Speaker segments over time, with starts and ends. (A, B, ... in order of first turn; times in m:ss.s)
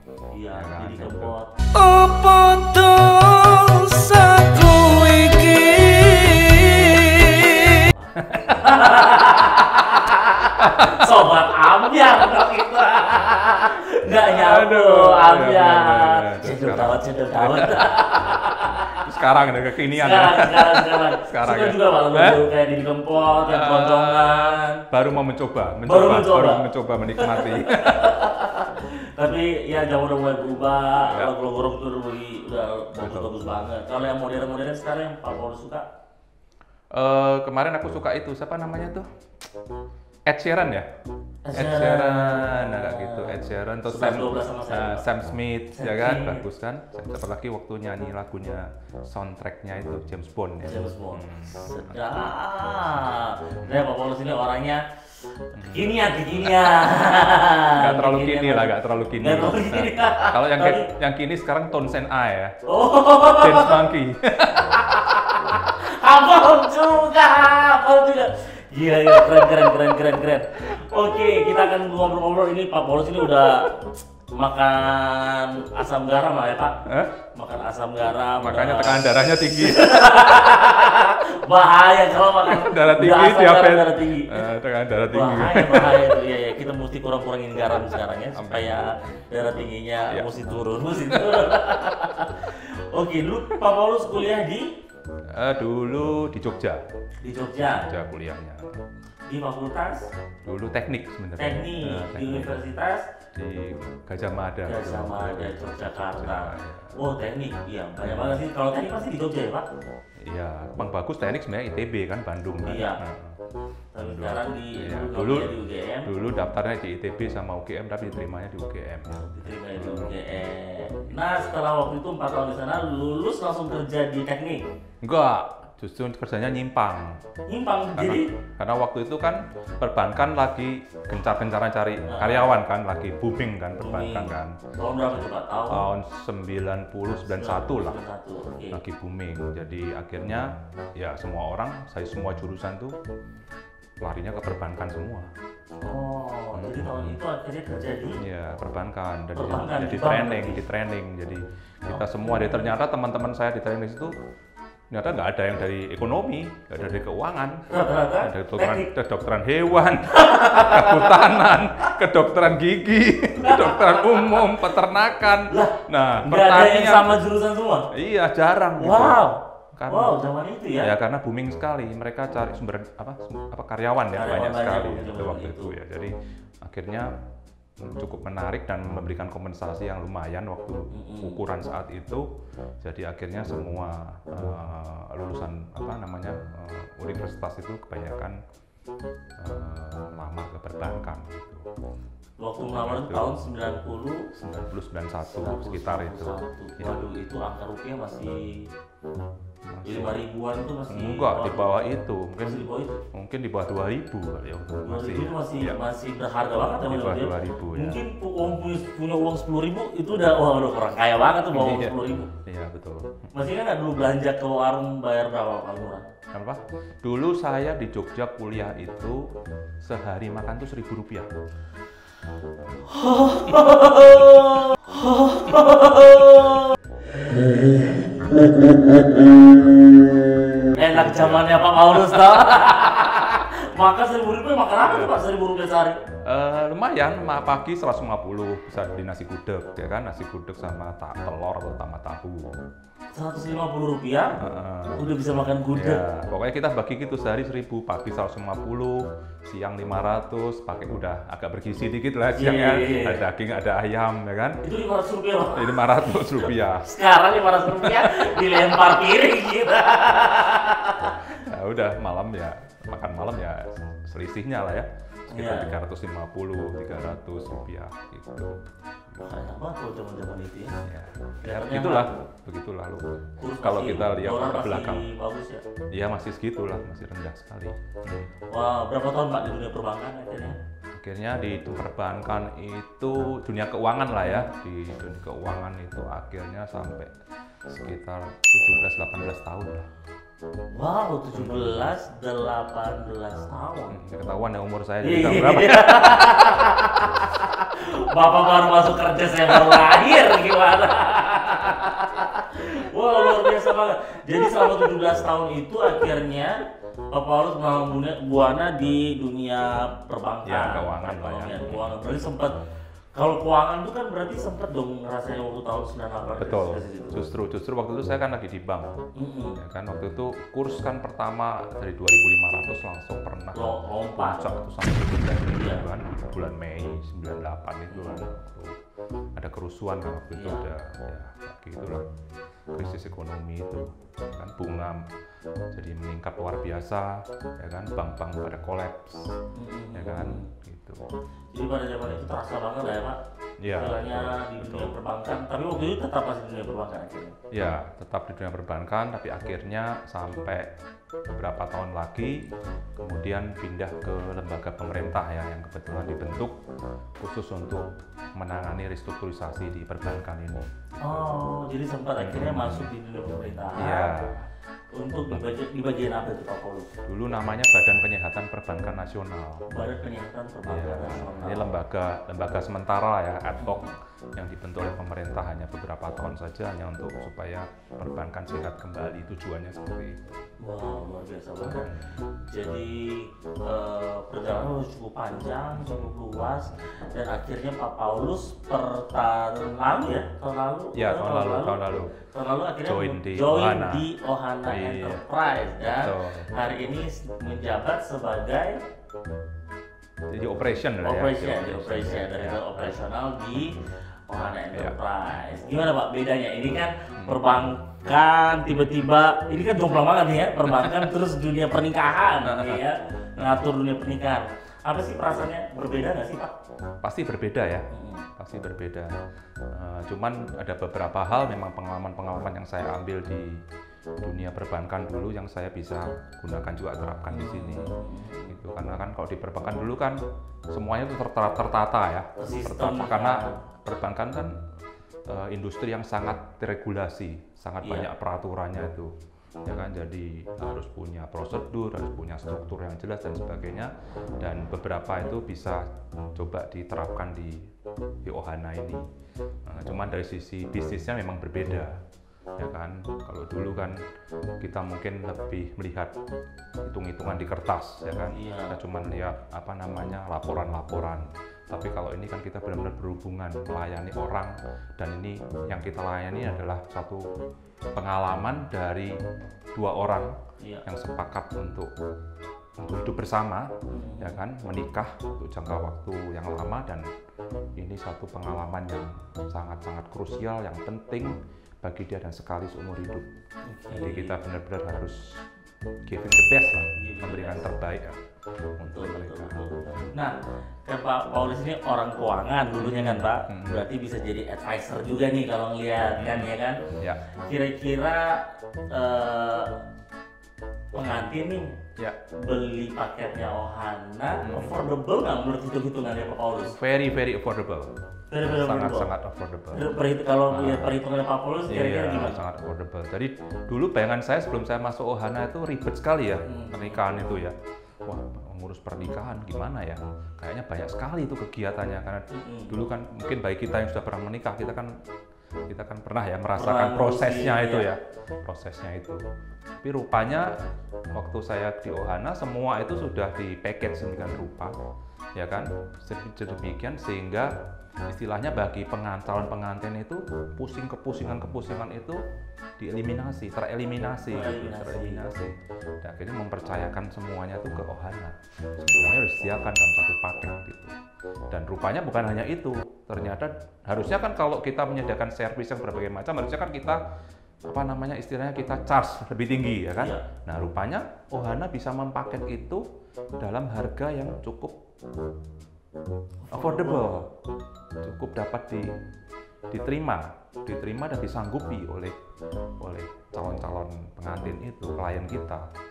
0:00.3-0:02.2 A
0:00.5-0:01.4 B
0:01.8-0:07.5 C
0:06.9-0:19.0 A
0:08.3-0:08.6 B
0:10.6-0:11.1 B
0:14.3-0:22.4 B
0:19.8-0:24.8 A
0:23.4-0:28.2 B
0:25.8-0:35.9 A
0:31.0-0:31.3 B
0:33.0-0:33.5 B
0:36.9-0:39.0 B
0:40.2-0:40.9 B
0:41.4-0:45.0 A
0:41.5-0:51.9 B
0:45.7-0:46.4 A
0:50.6-0:54.8 A
0:55.4-1:00.9 A
0:55.6-0:56.6 B
0:57.7-1:02.5 B
1:02.6-1:03.8 A
1:03.3-1:04.8 B
1:04.6-1:16.8 A
1:16.8-1:17.1 B
1:17.3-1:24.4 A
1:18.4-1:20.2 B
1:22.4-1:26.2 B
1:25.1-1:34.7 A
1:28.3-1:28.8 B
1:31.1-1:31.6 B
1:35.3-1:36.8 B
1:37.2-1:37.8 A
1:37.7-1:38.8 B
1:39.3-1:40.0 A
1:40.4-1:42.6 B
1:41.4-1:43.1 A
1:43.3-1:46.9 B
1:44.6-1:49.7 A
1:48.0-1:48.4 B
1:50.2-1:53.4 B
1:52.6-1:53.0 A
1:53.9-1:56.1 A
1:54.0-1:55.5 B
1:56.0-2:00.2 B
1:59.1-2:04.6 A
2:05.0-2:07.2 B
2:07.5-2:08.3 A
2:08.0-2:14.6 B
2:12.1-2:12.5 A
2:13.8-2:15.8 A
2:15.7-2:18.0 B
2:17.3-2:18.8 A
2:18.7-2:22.9 B
2:24.0-2:25.3 B
2:25.8-2:28.2 A
2:26.5-2:27.2 B
2:28.2-2:34.2 B
2:29.3-2:30.6 A
2:31.9-2:32.7 A
2:34.9-2:37.6 B
2:37.7-2:38.9 A
2:38.2-2:47.2 B
2:40.1-2:41.5 A
2:43.4-2:44.7 A
2:45.5-2:47.9 A
2:47.9-2:50.2 B
2:48.8-2:50.9 A
2:50.8-2:57.1 B
2:54.1-2:55.8 A
2:57.8-3:02.2 B
3:00.9-3:01.4 A
3:02.8-3:08.4 B
3:09.4-3:11.6 B
3:12.4-3:14.3 A
3:12.7-3:13.3 B
3:14.4-3:17.0 B
3:15.4-3:18.6 A
3:19.6-3:20.2 B
3:19.8-3:21.8 A
3:20.9-3:25.8 B
3:22.4-3:23.0 A
3:24.8-3:32.3 A
3:26.7-3:28.0 B
3:31.5-3:33.3 B
3:33.3-3:36.0 A
3:36.3-3:39.2 B
3:39.8-3:41.3 B
3:42.8-3:50.1 A
3:50.7-3:56.0 A
3:50.8-3:52.4 B
3:54.8-3:55.2 B
3:56.2-4:02.5 B
4:03.1-4:04.4 A
4:04.4-4:05.0 B
4:04.9-4:06.0 A
4:05.7-4:14.6 B
4:12.3-4:13.2 A
4:14.6-4:21.2 A
4:15.5-4:16.9 B
4:17.7-4:18.4 B
4:21.4-4:28.6 B
4:25.3-4:25.7 A
4:29.2-4:30.8 A
4:30.8-4:35.1 B
4:31.4-4:32.1 A
4:33.4-4:35.6 A
4:35.9-4:38.3 B
4:38.5-4:40.6 A
4:41.0-4:47.1 B
4:44.2-4:44.5 A
4:47.7-4:49.9 B
4:50.7-4:54.0 A
4:51.4-4:51.7 B
4:53.9-4:56.3 B
4:55.0-5:12.6 A
5:10.4-5:12.0 B
5:13.1-5:17.2 A
5:16.4-5:19.0 B
5:19.2-5:19.6 A
5:19.6-5:28.8 B
5:23.5-5:24.5 A
5:25.5-5:25.8 A
5:27.9-5:28.3 A
5:29.4-5:32.0 B
5:30.3-5:30.6 A
5:32.7-5:35.0 B
5:35.7-5:39.2 B
5:39.5-5:40.4 A
5:39.9-5:41.0 B
5:41.5-5:47.3 A
5:43.6-5:45.0 B
5:47.5-5:50.7 B
5:51.3-5:52.5 B
5:53.0-5:56.6 B
5:57.2-6:01.2 B
6:01.0-6:04.4 A
6:02.2-6:02.9 B
6:03.8-6:04.4 B
6:04.9-6:06.9 A
6:07.0-6:09.7 B
6:09.7-6:11.7 A
6:10.7-6:20.2 B
6:13.6-6:13.9 A
6:20.6-6:21.9 A
6:21.7-6:22.1 B
6:22.5-6:38.8 A
6:25.7-6:26.8 B
6:30.9-6:32.2 B
6:32.8-6:34.1 B
6:34.7-6:35.2 B
6:35.9-6:36.5 B
6:40.3-6:43.0 B
6:41.0-6:56.5 A
6:47.2-6:47.4 B
6:50.6-6:51.0 B
6:52.4-6:52.8 B
6:57.0-6:57.8 B
6:57.9-6:58.2 A
6:58.4-6:59.1 B
6:59.7-7:03.6 B
7:04.2-7:07.9 B
7:07.3-7:08.5 A
7:08.5-7:14.6 B
7:12.4-7:13.6 A
7:15.3-7:19.1 B
7:17.8-7:18.1 A
7:19.6-7:25.8 B
7:26.3-7:27.7 B
7:28.2-7:29.0 B
7:29.6-7:32.0 B
7:32.6-7:34.0 B
7:34.6-7:36.1 B
7:36.8-7:47.2 B
7:38.3-7:38.8 A
7:47.9-7:49.1 B
7:49.7-7:50.3 B
7:50.8-7:51.9 B
7:52.8-7:57.0 B
7:53.9-7:54.4 A
7:57.8-8:03.3 B
8:03.6-8:04.3 A
8:03.9-8:05.2 B
8:06.1-8:08.2 B
8:07.0-8:07.7 A
8:08.8-8:10.1 B
8:08.9-8:10.3 A
8:10.8-8:16.8 A
8:12.8-8:13.8 B
8:16.2-8:17.2 B
8:17.4-8:19.8 A
8:20.9-8:21.8 A
8:22.4-8:26.8 A
8:24.4-8:24.8 B
8:26.7-8:27.9 B
8:28.3-8:29.1 A
8:28.4-8:29.9 B
8:29.7-8:32.4 A
8:30.5-8:31.0 B
8:31.7-8:45.0 B
8:36.4-8:37.0 A
8:42.3-8:42.7 A
8:45.7-8:49.2 B
8:46.6-8:47.9 A
8:49.8-8:50.5 B
8:51.1-8:54.7 B
8:55.4-8:57.5 B
8:58.1-9:02.2 B
9:02.8-9:10.9 B
9:04.2-9:05.2 A
9:11.5-9:17.0 B
9:17.6-9:22.8 B
9:20.0-9:20.2 A
9:23.4-9:24.8 B
9:26.4-9:27.3 A
9:26.5-9:27.3 B
9:28.0-9:28.9 B
9:29.7-9:32.2 B
9:32.8-9:35.7 B